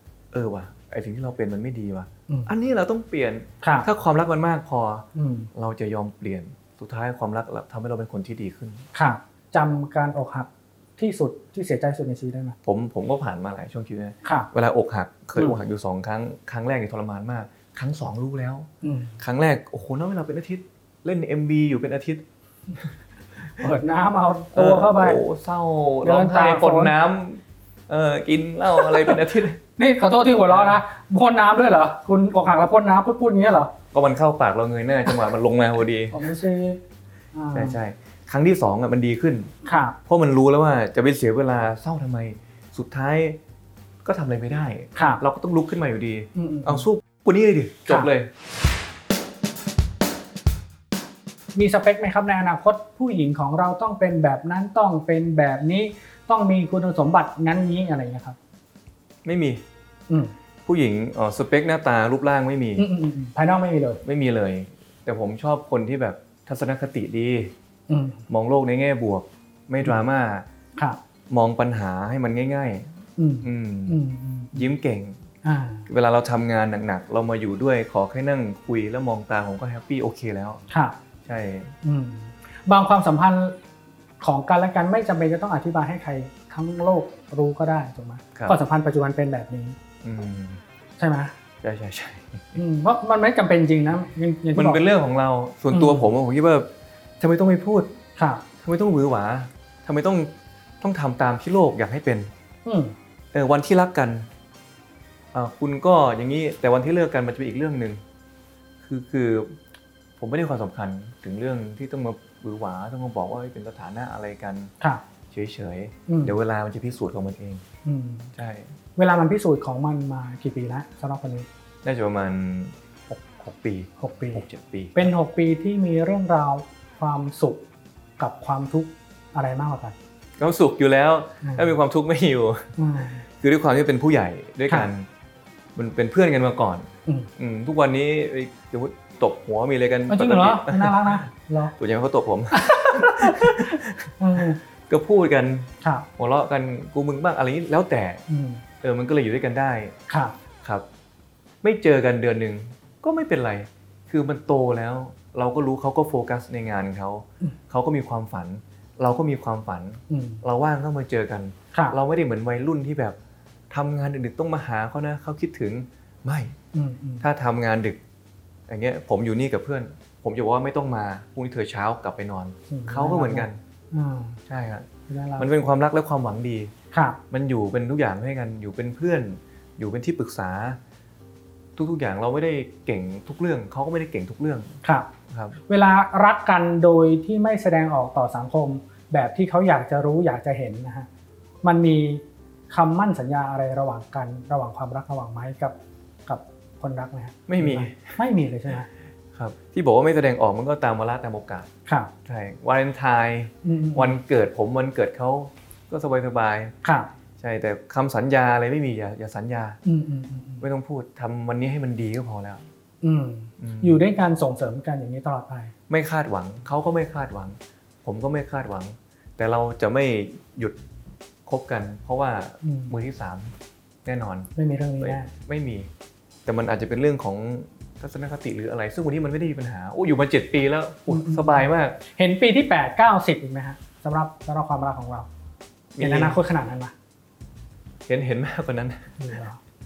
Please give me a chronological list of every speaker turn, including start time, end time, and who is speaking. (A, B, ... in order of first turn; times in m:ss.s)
0:00.3-0:08.9 A
0:03.6-0:03.9 B
0:05.2-0:05.5 B
0:08.9-0:12.6 B
0:12.6-0:22.2 A
0:14.2-0:14.5 B
0:18.8-0:19.2 B
0:23.6-0:25.2 B
0:24.5-0:29.6 A
0:26.0-0:26.9 B
0:29.8-0:33.7 B
0:30.5-0:30.8 A
0:33.9-0:36.2 A
0:36.1-0:36.8 B
0:37.3-0:37.8 B
0:37.5-0:39.5 A
0:39.6-0:40.0 B
0:40.1-0:43.4 A
0:44.0-0:48.3 A
0:45.0-0:45.2 B
0:46.4-0:46.9 B
0:51.6-0:58.4 B
0:59.2-0:59.6 A
1:00.1-1:00.3 B
1:00.7-1:02.9 A
1:02.8-1:04.0 B
1:04.0-1:07.6 A
1:07.9-1:08.2 B
1:08.3-1:10.5 A
1:11.3-1:14.0 A
1:13.2-1:14.7 B
1:14.5-1:15.2 A
1:15.4-1:15.9 B
1:15.9-1:20.6 A
1:20.7-1:21.0 B
1:21.2-1:21.8 A
1:21.8-1:23.6 B
1:24.2-1:29.8 B
1:30.0-1:30.6 A
1:31.0-1:31.3 B
1:31.6-1:32.6 A
1:32.6-1:34.8 B
1:34.6-1:38.0 A
1:35.7-1:36.1 B
1:38.2-1:38.4 B
1:38.6-1:42.3 A
1:42.6-1:43.0 B
1:43.3-1:44.3 A
1:45.3-1:48.0 A
1:48.8-1:49.6 A
1:50.2-1:54.7 A
1:55.3-1:57.6 A
1:56.1-1:56.3 B
1:57.8-1:58.3 B
1:58.4-1:58.8 A
1:59.0-2:01.5 B
2:01.8-2:05.1 A
2:04.0-2:04.4 B
2:05.0-2:07.6 B
2:08.2-2:10.0 B
2:10.4-2:12.7 A
2:11.4-2:11.7 B
2:12.8-2:13.2 B
2:13.3-2:15.1 A
2:15.8-2:28.2 A
2:20.1-2:21.8 B
2:22.5-2:24.6 B
2:25.8-2:26.1 B
2:28.3-2:28.6 B
2:28.8-2:30.0 A
2:30.1-2:30.3 B
2:31.6-2:43.2 A
2:40.1-2:40.4 B
2:43.7-2:46.6 A
2:46.7-2:47.2 B
2:47.2-2:48.0 A
2:48.7-2:53.6 A
2:52.7-2:54.4 B
2:54.5-2:56.7 A
2:55.1-2:55.5 B
2:56.9-2:57.2 B
2:57.3-3:00.8 A
3:01.8-3:04.8 A
3:04.8-3:05.1 B
3:05.3-3:05.6 A
3:05.7-3:11.1 B
3:11.6-3:15.8 B
3:16.3-3:18.9 B
3:17.5-3:18.2 A
3:19.3-3:21.7 A
3:21.9-3:22.1 B
3:22.2-3:26.7 A
3:23.6-3:24.2 B
3:26.8-3:27.1 B
3:27.4-3:29.8 A
3:29.8-3:30.6 B
3:30.6-3:32.7 A
3:33.0-3:35.7 B
3:33.6-3:34.0 A
3:35.9-3:40.8 A
3:41.5-3:45.9 A
3:42.6-3:43.0 B
3:44.6-3:45.3 B
3:46.5-3:52.0 A
3:51.1-3:55.3 B
3:56.0-3:56.4 A
3:56.0-3:56.9 B
3:58.1-3:59.2 A
3:59.2-3:59.6 B